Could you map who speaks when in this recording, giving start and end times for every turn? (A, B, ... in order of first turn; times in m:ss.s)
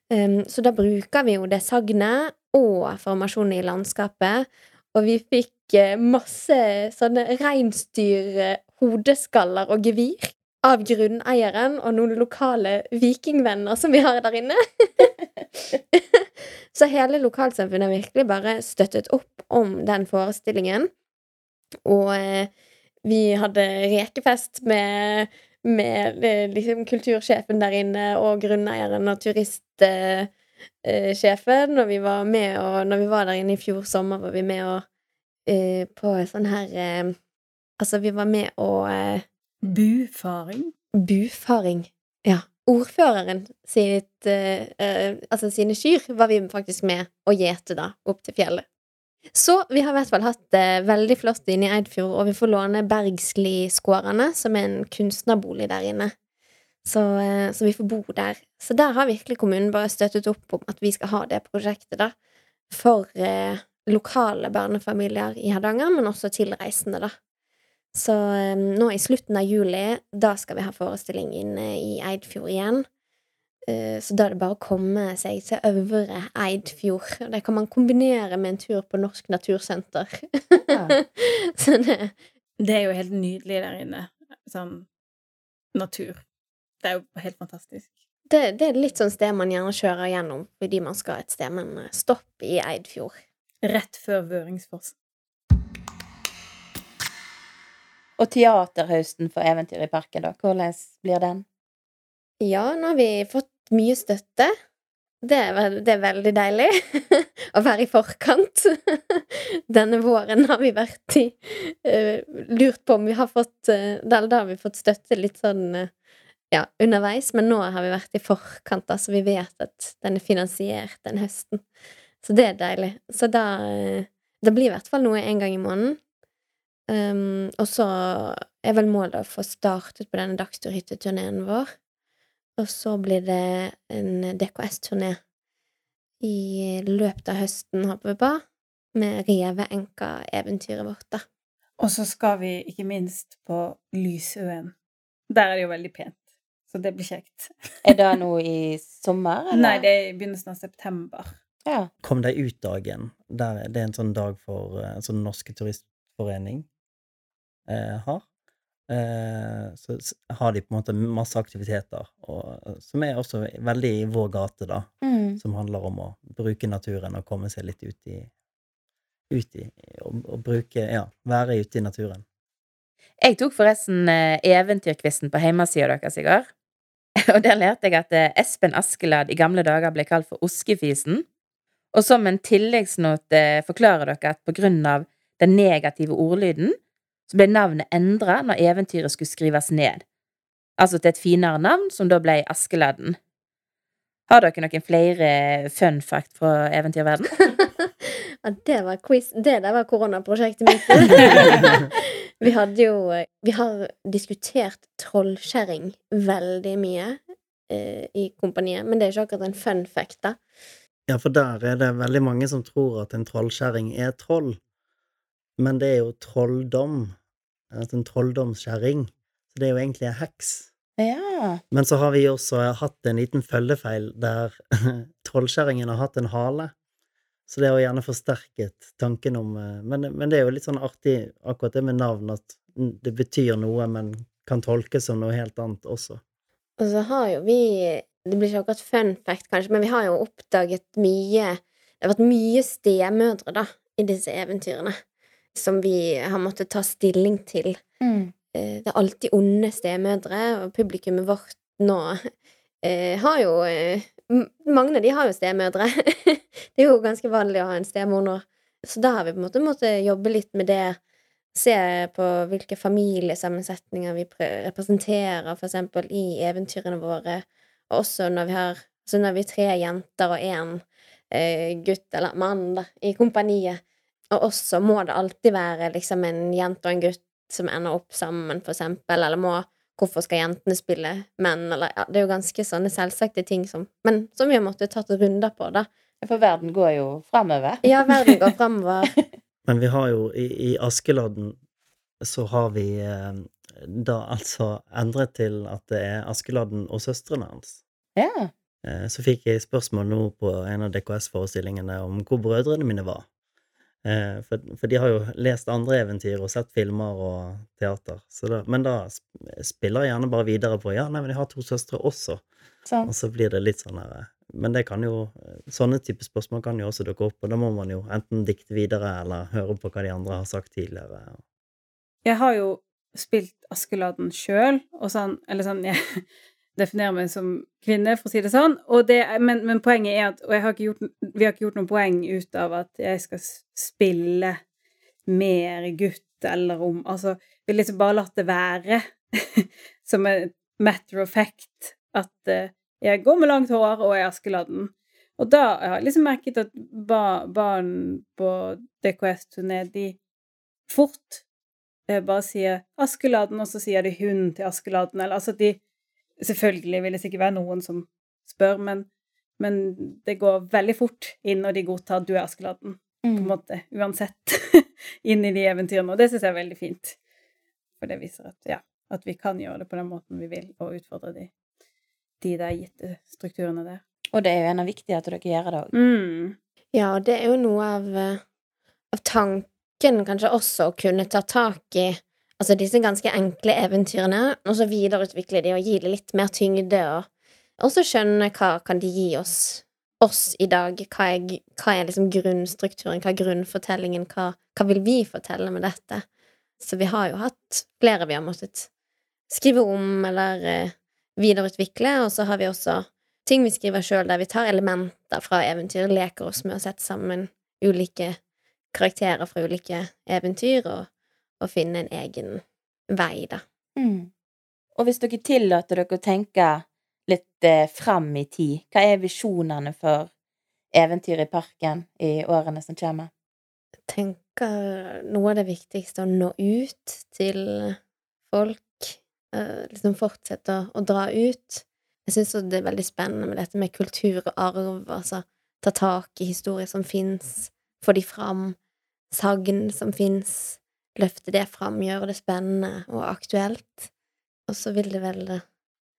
0:00.1-0:15.1 A
0:15.8-0:20.9 A
0:21.8-0:22.5 A
0:23.0-0:30.3 A
0:30.8-0:34.8 A
0:35.5-0:37.2 A
0:37.8-0:39.2 A
0:39.6-0:40.7 B
0:41.0-0:48.6 A
0:49.3-0:56.1 A
0:56.8-1:02.1 A
1:02.7-1:07.1 A
1:07.9-1:12.8 A
1:13.7-1:22.1 A
1:22.6-1:24.9 B
1:25.7-1:26.2 B
1:26.8-1:27.9 B
1:28.3-1:33.2 A
1:33.6-1:35.0 B
1:38.2-1:41.4 C
1:42.4-1:44.5 A
1:45.2-1:55.9 A
1:56.5-2:01.6 A
2:02.2-2:06.0 A
2:06.9-2:11.7 A
2:12.6-2:15.2 A
2:16.2-2:18.4 A
2:18.9-2:21.2 A
2:21.8-2:24.7 B
2:25.3-2:26.2 B
2:26.7-2:27.5 B
2:27.8-2:29.8 C
2:29.5-2:31.3 B
2:32.0-2:36.7 D
2:37.7-2:38.2 D
2:38.9-2:48.3 D
2:45.0-2:45.4 C
2:49.3-2:52.2 D
2:53.2-2:56.5 C
2:57.3-3:01.2 C
3:01.9-3:06.8 C
3:07.3-3:10.0 C
3:10.8-3:13.2 C
3:14.3-3:17.5 C
3:17.8-3:30.4 A
3:31.1-3:34.6 D
3:35.6-3:37.2 D
3:37.7-3:40.7 D
3:41.0-3:41.6 C
3:41.7-3:46.7 D
3:47.5-3:56.2 D
3:56.8-4:05.0 A
4:05.6-4:07.8 A
4:08.0-4:08.3 C
4:08.5-4:12.3 A
4:12.8-4:21.0 A
4:21.5-4:45.9 A
4:46.2-4:48.4 C
4:47.8-4:49.1 A
4:49.7-4:51.6 D
4:52.2-4:57.8 D
4:58.2-4:58.5 C
4:58.8-5:03.2 D
5:04.0-5:12.4 D
5:12.9-5:13.1 C
5:13.1-5:21.4 D
5:22.2-5:26.2 B
5:26.8-5:34.6 B
5:35.3-5:50.2 B
5:50.9-5:51.4 B
5:52.1-5:55.8 B
5:56.4-5:59.1 B
5:59.6-6:07.2 B
6:03.2-6:03.5 C
6:08.0-6:11.5 B
6:12.4-6:14.0 B
6:14.3-6:15.9 C
6:15.9-6:16.6 B
6:16.9-6:18.4 A
6:19.1-6:27.3 A
6:27.8-6:36.2 A
6:36.8-6:38.9 A
6:39.5-6:48.4 A
6:48.9-6:51.1 A
6:51.6-6:53.6 A
6:54.0-6:54.3 C
6:55.0-7:00.3 C
7:00.9-7:03.3 C
7:04.1-7:08.0 A
7:08.5-7:18.8 A
7:19.3-7:24.1 A
7:24.7-7:25.6 A